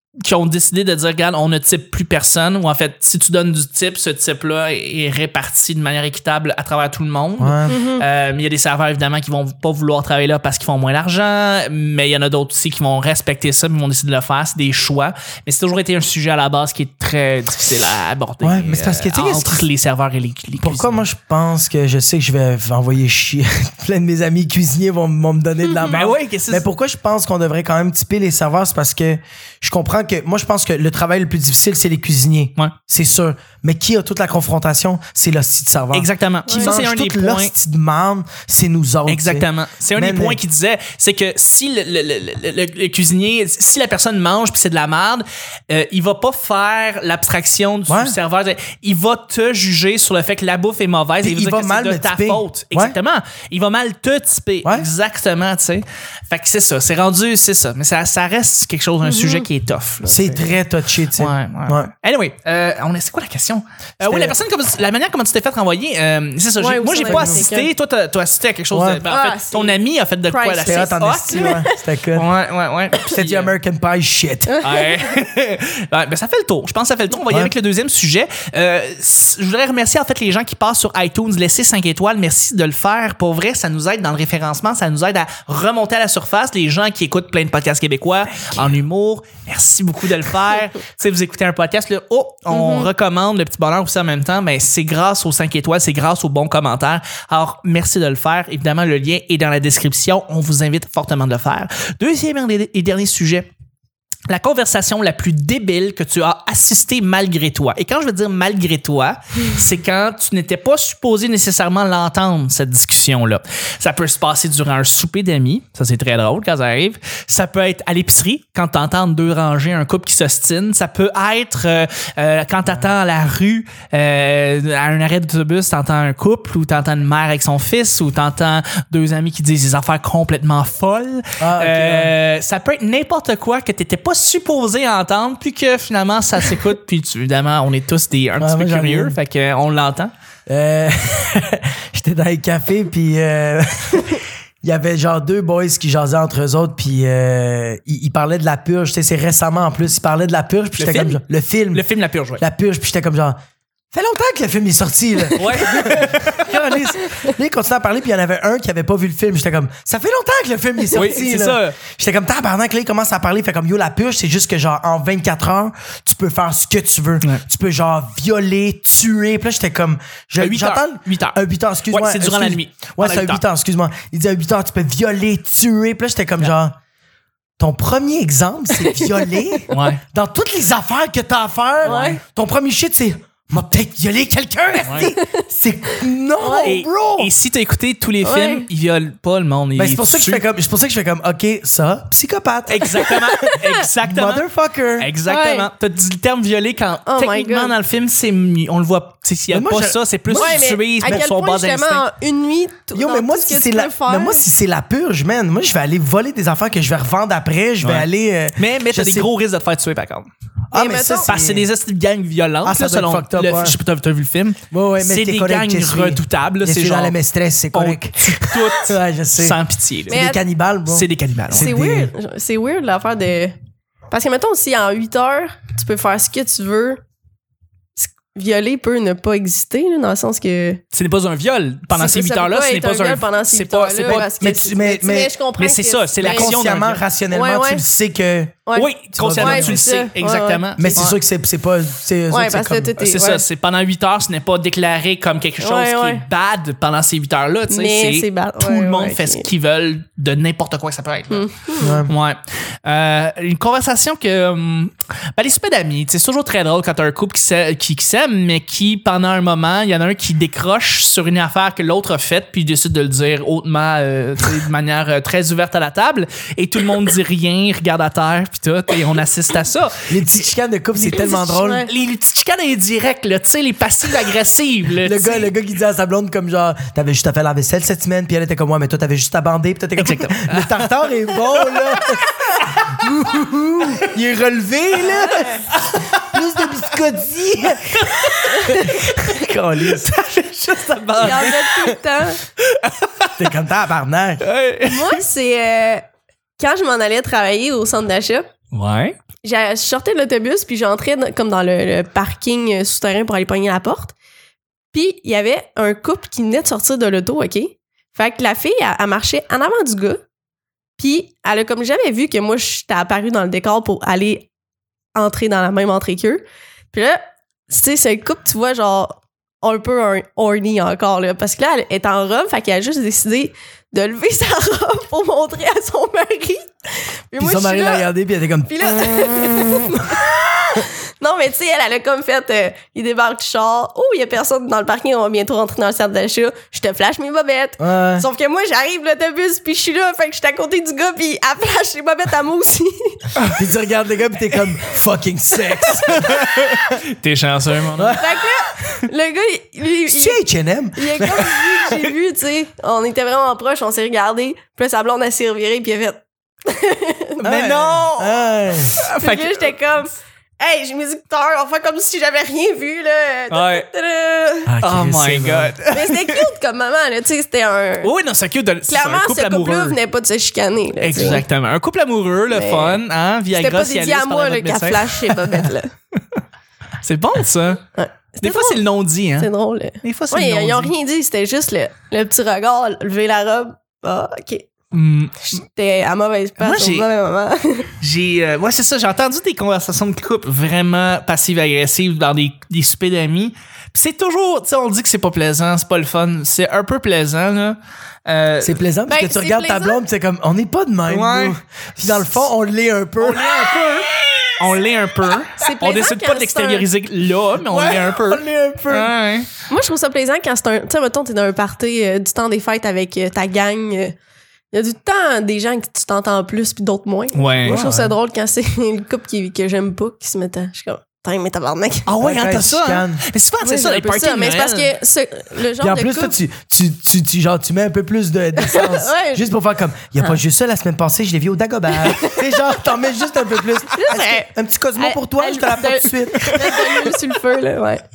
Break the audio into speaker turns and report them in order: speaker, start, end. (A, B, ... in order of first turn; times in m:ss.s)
0:00.2-0:21.0 A
0:07.4-0:07.8 B
0:07.7-0:08.0 C
0:18.4-0:19.7 B
0:20.6-0:40.4 B
0:25.7-0:25.9 C
0:25.9-0:26.6 A
0:35.9-0:37.5 A
0:36.5-0:36.8 C
0:39.1-1:00.5 A
0:47.9-0:48.2 B
0:51.2-0:53.0 B
0:59.0-0:59.5 C
1:00.1-1:01.9 B
1:01.2-1:11.6 A
1:04.0-1:04.4 B
1:06.6-1:07.7 C
1:07.1-1:07.4 B
1:08.7-1:09.0 B
1:09.1-1:11.8 C
1:10.6-1:12.3 B
1:12.1-1:13.5 A
1:13.1-1:14.6 B
1:14.5-1:15.0 C
1:14.6-1:43.5 A
1:32.5-1:32.9 C
1:44.3-2:20.1 A
2:11.4-2:12.1 B
2:18.4-2:19.2 B
2:20.5-2:31.9 B
2:30.8-2:31.2 A
2:31.7-2:32.4 A
2:32.4-2:33.4 B
2:33.9-2:56.8 B
2:35.4-2:36.5 A
2:40.9-2:41.8 A
2:50.4-2:51.4 A
2:51.9-2:53.4 A
2:57.6-3:07.3 B
2:58.8-2:59.7 C
2:59.7-3:00.0 A
3:01.8-3:02.2 C
3:01.8-3:02.2 A
3:04.8-3:05.1 A
3:05.0-3:06.8 C
3:06.6-3:10.4 A
3:08.2-3:08.7 C
3:09.8-3:13.3 B
3:12.7-3:14.4 A
3:12.8-3:13.8 C
3:14.0-3:15.1 B
3:15.0-3:22.0 A
3:15.3-3:15.7 C
3:17.1-3:17.7 C
3:19.5-3:21.2 B
3:20.3-3:24.5 C
3:22.9-3:29.3 B
3:27.8-3:30.3 A
3:30.7-3:31.7 B
3:30.7-3:31.3 C
3:31.3-3:37.2 A
3:32.6-3:33.8 B
3:34.7-3:42.1 B
3:37.7-3:40.3 A
3:40.1-3:40.4 C
3:40.9-3:41.8 A
3:41.5-3:43.6 C
3:44.1-3:47.0 C
3:48.0-3:50.8 C
3:50.9-3:54.3 A
3:51.9-3:56.6 C
3:54.0-3:55.3 B
3:55.6-3:57.0 A
3:56.2-3:58.6 B
3:57.3-3:57.8 C
3:58.7-4:01.1 C
3:58.8-4:01.2 A
3:59.2-3:59.8 B
4:00.8-4:02.9 B
4:02.3-4:03.4 C
4:03.0-4:11.5 A
4:05.6-4:06.2 C
4:07.7-4:09.5 C
4:11.3-4:12.0 C
4:11.8-4:12.1 B
4:12.1-4:30.2 A
4:30.1-4:31.9 B
4:31.1-4:31.9 C
4:31.2-4:35.5 A
4:35.0-4:42.3 B
4:40.0-4:42.0 A
4:42.6-4:42.9 A
4:42.9-4:50.3 B
4:45.7-4:46.1 A
4:48.0-4:49.3 A
4:48.5-4:49.0 C
4:49.8-4:51.9 A
4:51.2-4:52.4 C
4:52.6-4:53.5 A
4:53.4-4:54.5 B
4:54.4-4:55.2 A
4:54.9-4:56.0 C
4:56.6-4:58.5 C
4:58.7-4:59.2 A
4:59.4-5:04.1 C
5:04.9-5:10.2 C
5:11.0-5:14.5 C
5:15.2-5:28.1 C
5:27.4-5:29.3 B
5:28.7-5:43.4 C
5:37.8-5:38.3 B
5:43.5-5:46.9 B
5:46.1-5:48.2 A
5:48.0-5:48.4 B
5:48.2-5:50.4 C
5:50.1-5:52.1 B
5:51.0-5:57.4 C
5:57.4-5:59.7 A
5:57.4-5:59.0 B
5:59.0-6:04.7 C
6:03.5-6:03.9 A
6:04.7-6:05.7 B
6:04.8-6:06.5 A
6:05.9-6:08.1 C
6:08.0-6:10.0 A
6:08.9-6:11.4 C
6:11.0-6:16.4 A
6:12.5-6:13.0 C
6:13.5-6:15.9 C
6:17.0-6:17.8 A
6:18.0-6:18.8 C
6:18.4-6:19.5 A
6:19.4-6:24.7 C
6:20.0-6:20.9 A
6:24.9-6:25.5 A
6:25.5-6:27.9 C
6:26.6-6:27.1 A
6:28.0-6:38.8 A
6:38.6-6:44.8 B
6:39.1-6:40.0 C
6:41.1-6:41.6 A
6:43.2-6:49.5 A
6:45.6-6:46.9 C
6:47.6-6:49.1 B
6:49.7-6:54.2 C
6:54.7-7:02.1 C
6:57.3-6:57.8 A
6:57.7-6:58.1 B
7:02.1-7:04.9 A
7:02.2-7:03.2 B
7:03.6-7:06.4 C
7:05.8-7:17.1 B
7:08.6-7:09.5 C
7:11.9-7:12.5 C
7:13.9-7:18.0 C